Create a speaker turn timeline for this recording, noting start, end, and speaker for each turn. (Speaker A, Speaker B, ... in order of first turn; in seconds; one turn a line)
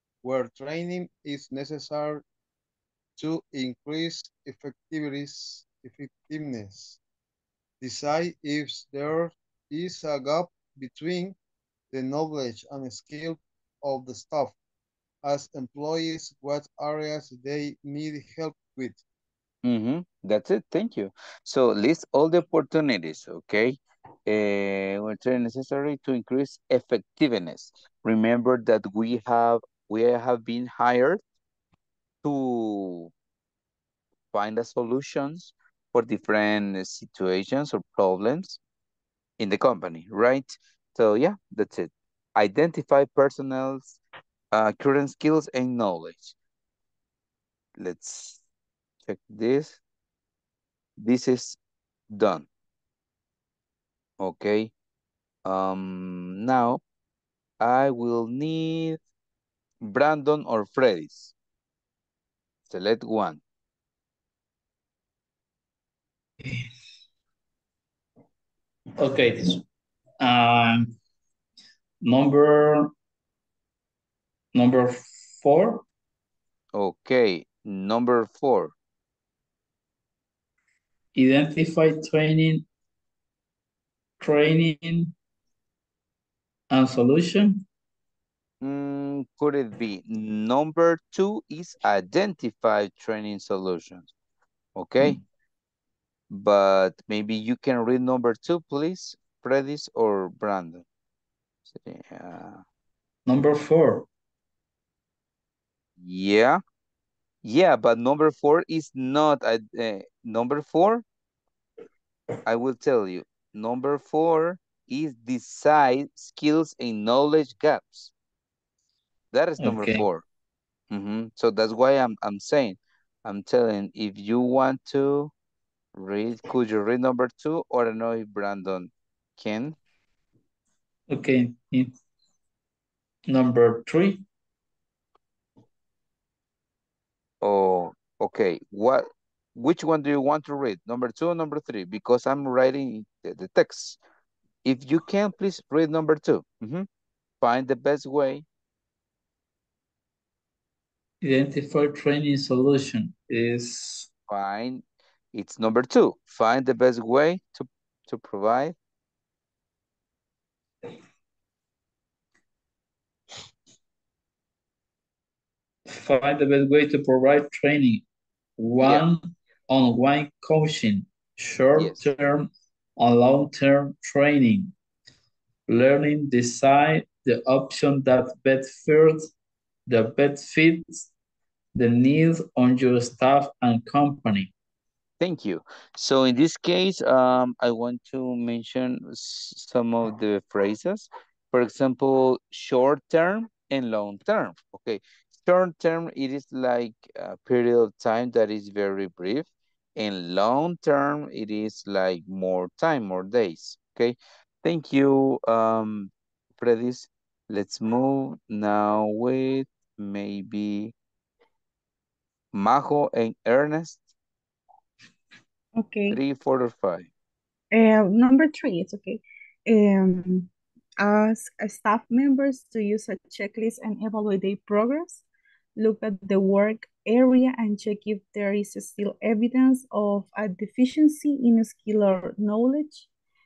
Speaker A: 0.2-2.2
Speaker A: 3.2-7.0
Speaker A: 7.8-11.3
Speaker A: 11.9-14.6
Speaker A: 15.2-19.0
Speaker B: 19.6-31.2
Speaker B: 32.2-33.1
Speaker B: 34.3-38.6
Speaker B: 39.4-44.0
Speaker B: 44.5-46.4
Speaker B: 47.8-48.4
Speaker B: 49.1-49.8
Speaker B: 51.0-51.6
Speaker B: 52.1-52.5
Speaker B: 54.2-54.7
Speaker B: 55.5-56.8
Speaker B: 57.6-59.0
Speaker B: 59.8-61.3
Speaker B: 62.7-63.4
Speaker C: 69.0-69.6
Speaker C: 70.2-71.0
Speaker C: 72.0-72.9
Speaker C: 74.5-75.8
Speaker B: 76.7-78.7
Speaker C: 81.2-82.7
Speaker C: 84.2-85.1
Speaker C: 86.7-87.7
Speaker B: 88.6-94.1
Speaker B: 94.8-95.2
Speaker B: 96.3-100.8
Speaker B: 101.7-102.6
Speaker C: 103.3-104.1
Speaker B: 106.0-106.6
Speaker B: 107.4-111.0
Speaker B: 112.5-118.1
Speaker B: 119.3-120.2
Speaker C: 119.6-120.1
Speaker B: 120.9-125.3
Speaker B: 126.0-129.8
Speaker C: 131.1-131.9
Speaker C: 133.3-134.2
Speaker B: 137.4-144.0
Speaker B: 144.7-146.9
Speaker B: 147.4-148.4
Speaker C: 151.2-154.1
Speaker B: 154.3-154.8
Speaker B: 155.3-158.8
Speaker C: 165.9-168.1
Speaker C: 168.6-174.7
Speaker C: 175.7-179.3
Speaker C: 179.9-181.1
Speaker C: 181.8-184.5
Speaker B: 185.2-210.9
Speaker B: 212.5-214.1
Speaker D: 215.8-216.2
Speaker B: 216.1-217.1
Speaker D: 217.7-220.5
Speaker D: 221.0-225.2
Speaker D: 225.8-233.1